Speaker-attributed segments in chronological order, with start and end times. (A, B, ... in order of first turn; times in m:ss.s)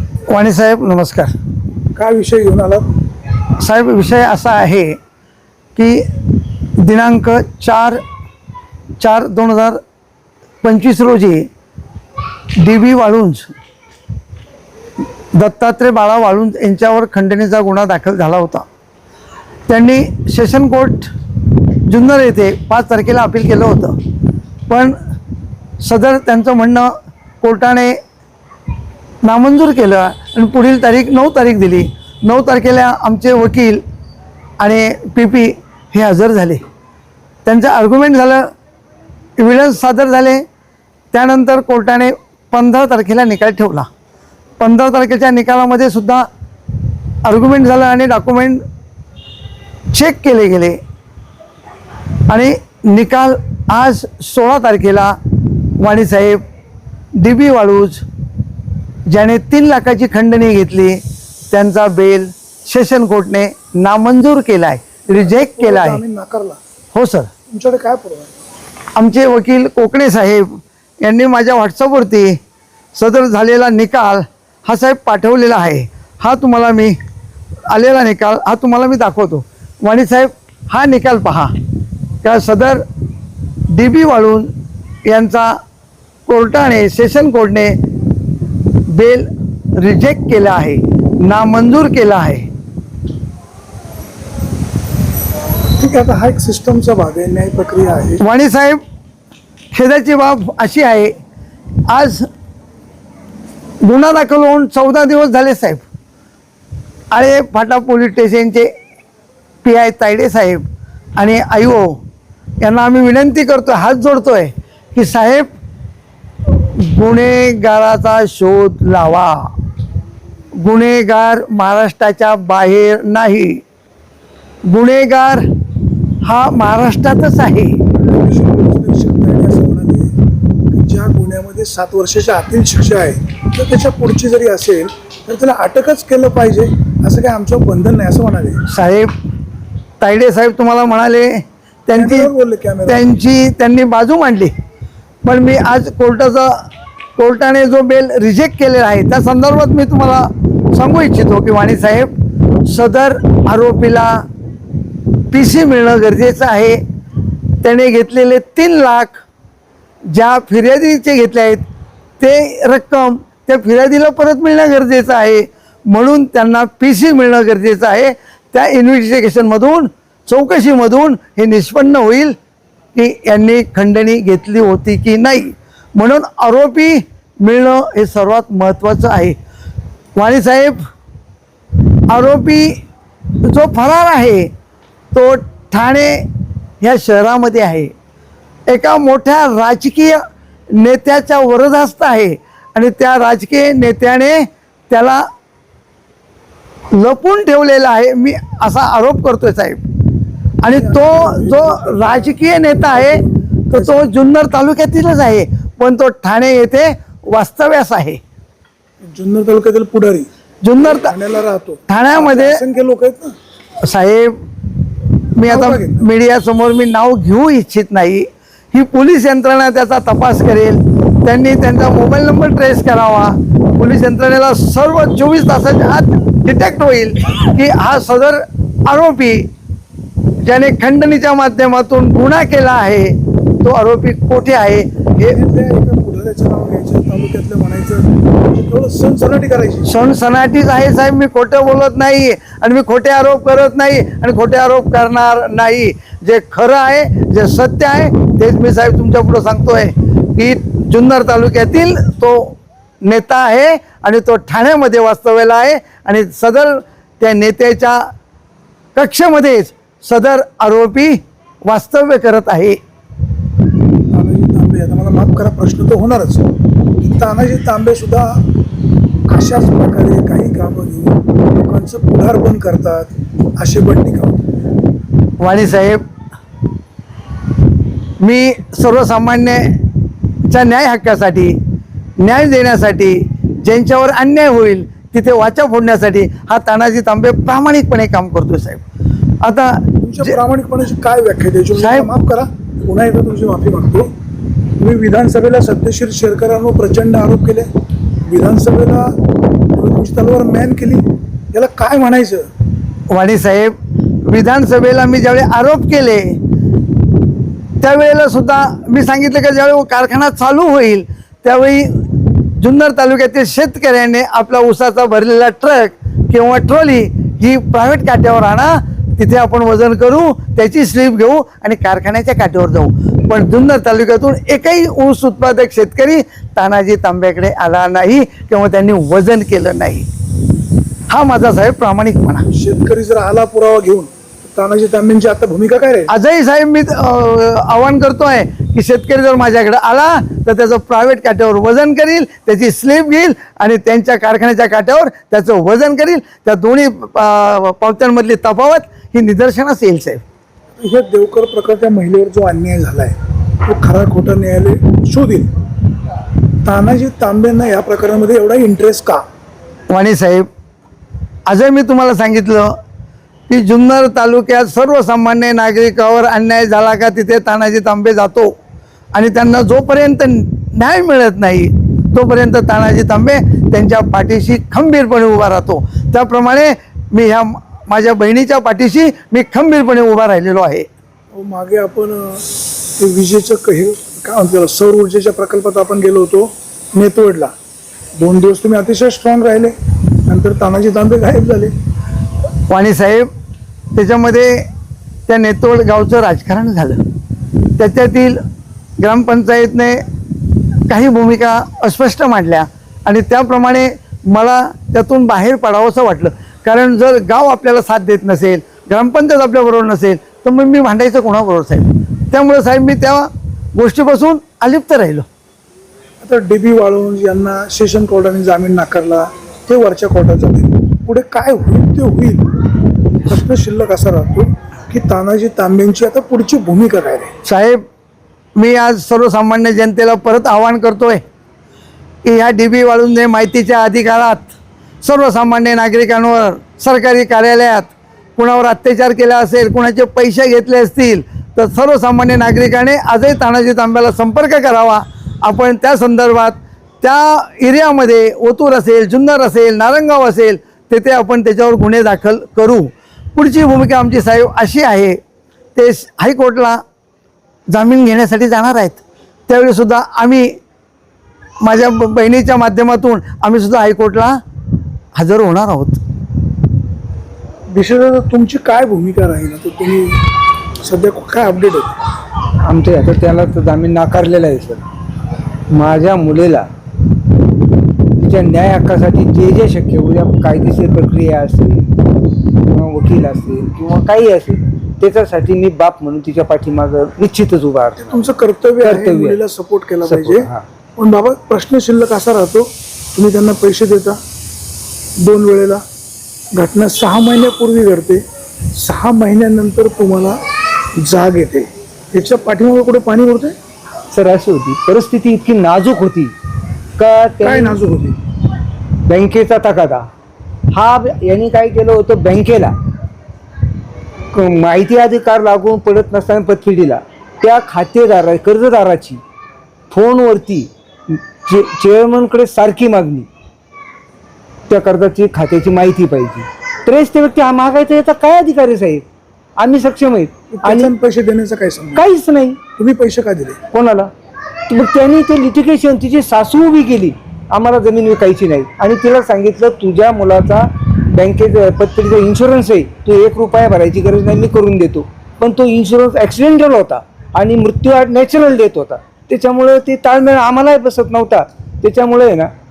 0:00.3-0:01.3 A
0:02.0-0:02.8 B
0:03.6-0:05.0 A
0:05.8-0:06.1 A
0:06.8-0:08.0 A
0:09.0-0:09.8 A
0:10.6-0:11.5 A
0:12.6-0:13.5 A
0:15.3-0:18.7 A
0:19.7-0:21.1 A
0:21.9-0:24.0 A
0:24.7-0:25.0 A
0:25.8-0:28.0 A
0:29.2-0:33.8 A
0:34.6-0:36.6 A
0:37.4-0:38.5 A
0:39.4-0:40.4 A
0:41.1-0:43.9 A
0:44.6-0:46.3 A
0:47.2-0:48.6 A
0:49.9-0:50.8 A
0:52.3-0:55.2 A
0:55.8-0:56.4 A
0:57.2-0:58.0 A
0:59.1-1:06.0 A
1:05.1-1:06.6 B
1:06.9-1:07.3 A
1:07.5-1:08.3 B
1:09.0-1:12.4 A
1:12.9-1:17.0 A
1:17.7-1:21.5 A
1:22.2-1:22.8 A
1:23.7-1:24.5 A
1:25.0-1:25.6 A
1:26.3-1:27.8 A
1:28.9-1:32.5 A
1:35.8-1:38.2 B
1:38.2-1:38.8 A
1:39.7-1:41.1 A
1:41.9-1:42.3 A
1:43.8-1:45.8 A
1:47.1-1:48.7 A
1:49.6-1:50.6 A
1:51.2-1:52.0 A
1:52.6-1:55.5 A
1:56.5-1:59.5 A
2:00.6-2:03.6 A
2:04.6-2:05.5 A
2:06.2-2:07.8 A
2:08.0-2:10.1 B
2:10.7-2:18.6 B
2:18.7-2:19.1 A
2:20.0-2:22.3 A
2:21.9-2:23.0 B
2:22.8-2:24.5 A
2:25.2-2:32.1 A
2:32.6-2:34.2 A
2:35.3-2:36.8 A
2:37.6-2:39.2 A
2:40.1-2:41.6 A
2:42.2-2:52.4 A
2:52.9-2:59.4 A
3:00.2-3:00.8 A
3:02.1-3:02.8 A
3:03.4-3:04.5 A
3:05.1-3:06.2 A
3:06.8-3:07.9 A
3:08.7-3:15.3 A
3:16.9-3:19.8 A
3:20.6-3:28.2 A
3:20.7-3:24.1 B
3:29.1-3:30.3 B
3:30.6-3:31.1 A
3:30.8-3:33.3 B
3:31.9-3:32.6 A
3:33.8-3:34.4 A
3:35.4-3:49.5 A
3:35.4-3:36.0 B
3:50.4-3:55.4 A
3:55.2-3:59.9 B
3:59.9-4:18.1 A
4:18.9-4:22.8 A
4:24.1-4:28.4 B
4:29.3-4:34.4 B
4:35.4-4:36.0 A
4:38.2-4:39.8 A
4:40.5-4:41.6 A
4:42.2-4:48.8 A
4:49.4-4:50.3 A
4:50.0-4:54.1 B
4:51.8-4:52.1 A
4:54.8-4:57.7 B
4:58.2-4:59.2 B
4:59.7-5:02.5 B
5:03.1-5:03.7 A
5:04.2-5:06.4 A
5:07.8-5:12.0 A
5:12.6-5:30.1 A
5:31.1-5:32.4 A
5:32.5-5:36.1 B
5:36.1-5:50.2 A
5:50.8-5:55.5 B
5:56.6-5:59.2 B
5:59.9-6:00.5 A
6:01.5-6:02.8 A
6:03.5-6:08.5 A
6:09.1-6:20.9 A
6:21.3-6:27.5 B
6:28.2-6:29.7 B
6:30.2-6:31.7 B
6:32.7-6:33.3 A
6:33.9-6:34.7 A
6:35.3-6:37.0 A
6:37.8-6:38.4 A
6:39.0-6:40.0 A
6:40.9-6:55.3 A
6:56.2-7:02.5 B
7:03.2-7:07.3 B
7:07.4-7:07.8 A
7:08.6-7:11.2 A
7:12.2-7:35.2 A
7:35.7-7:36.8 A
7:37.7-7:40.6 A
7:41.6-7:44.4 A
7:45.2-7:46.0 A
7:47.7-7:50.2 B
7:50.8-7:52.0 B
7:52.6-7:54.8 C
7:55.7-7:56.7 C
7:58.2-8:01.9 C
8:02.6-8:08.2 C
8:08.0-8:14.2 B
8:08.8-8:09.4 C
8:10.0-8:10.6 C
8:15.2-8:15.8 B
8:16.5-8:18.2 B
8:18.7-8:20.4 B
8:21.0-8:23.6 B
8:24.1-8:26.3 C
8:27.0-8:27.8 C
8:27.4-8:28.2 B
8:29.0-8:30.1 C
8:30.7-8:32.7 C
8:34.3-8:39.2 C
8:39.9-8:43.3 C
8:44.7-8:49.0 C
8:49.6-8:50.9 C
8:50.5-8:52.0 B
8:52.0-8:52.6 C
8:52.8-8:53.6 B
8:53.7-8:54.1 C
8:54.7-9:12.5 C